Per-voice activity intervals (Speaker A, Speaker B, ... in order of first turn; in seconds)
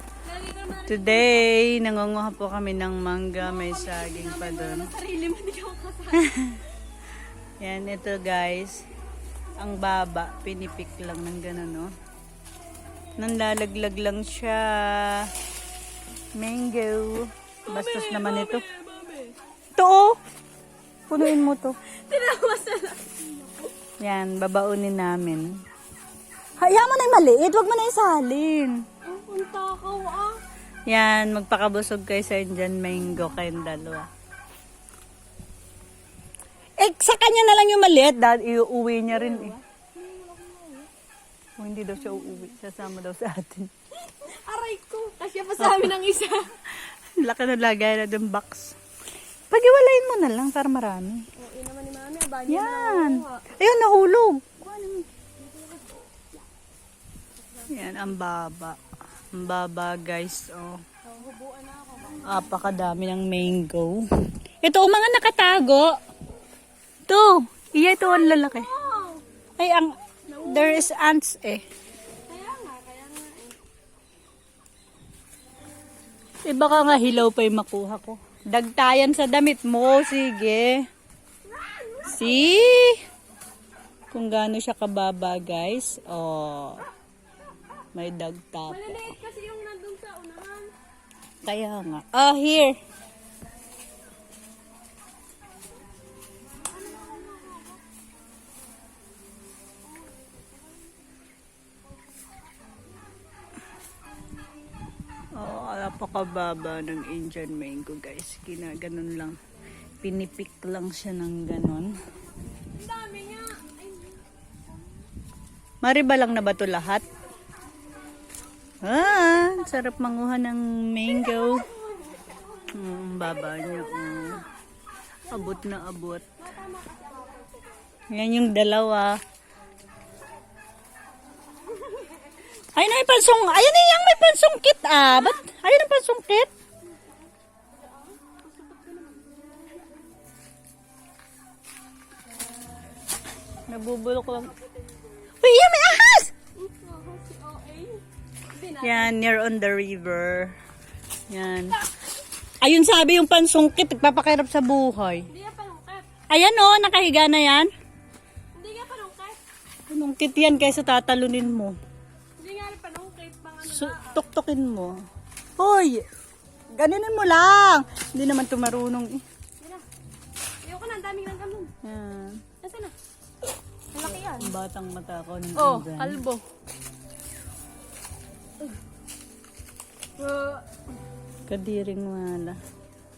Speaker A: 0.2-1.5, 3.4-6.3, 17.7-19.4, 21.9-23.7, 29.0-30.4, 39.1-40.9, 42.1-42.5, 44.0-46.6, 51.4-53.5, 55.4-56.4, 57.6-57.8, 61.0-62.4, 67.8-69.2, 70.3-70.9, 72.3-73.6, 81.4-82.8, 88.7-90.7, 96.6-97.8, 99.8-101.3, 101.8-102.8, 112.6-114.2, 118.8-119.9, 121.0-124.5, 125.2-125.7, 126.4-128.1, 131.6-132.4, 135.1-135.4, 136.8-139.5, 144.4-145.3, 146.6-149.2, 155.3-156.1, 158.5-159.4, 162.4-164.2, 169.6-169.8, 170.6-171.7, 172.6-172.9, 173.9-174.5, 175.6-176.4, 180.2-180.6
Speaker B: 0.9-4.9, 6.2-6.6, 7.6-8.8, 9.6-11.9, 13.2-15.3, 16.4-18.6, 19.8-20.2, 21.1-21.8, 24.0-25.5, 26.6-28.8, 30.9-34.1, 36.8-39.5, 41.6-43.7, 47.2-48.8, 49.5-51.2, 52.5-55.0, 57.7-58.8, 59.3-60.8, 62.2-64.0, 64.6-65.9, 67.1-68.7, 69.6-69.9, 70.5-71.6, 76.5-80.8, 82.1-83.0, 84.1-86.8, 88.0-89.1, 91.5-92.8, 105.4-109.4, 110.0-111.9, 115.8-117.0, 118.8-121.7, 122.7-124.4, 125.3-126.2, 128.1-129.2, 132.7-136.5, 143.7-144.5, 145.4-146.3, 148.8-150.5, 151.3-151.8, 152.6-155.3, 156.3-157.7, 159.9-161.8, 163.6-164.9, 165.6-166.0, 166.8-169.2, 171.8-172.4, 174.0-176.2, 181.5-182.6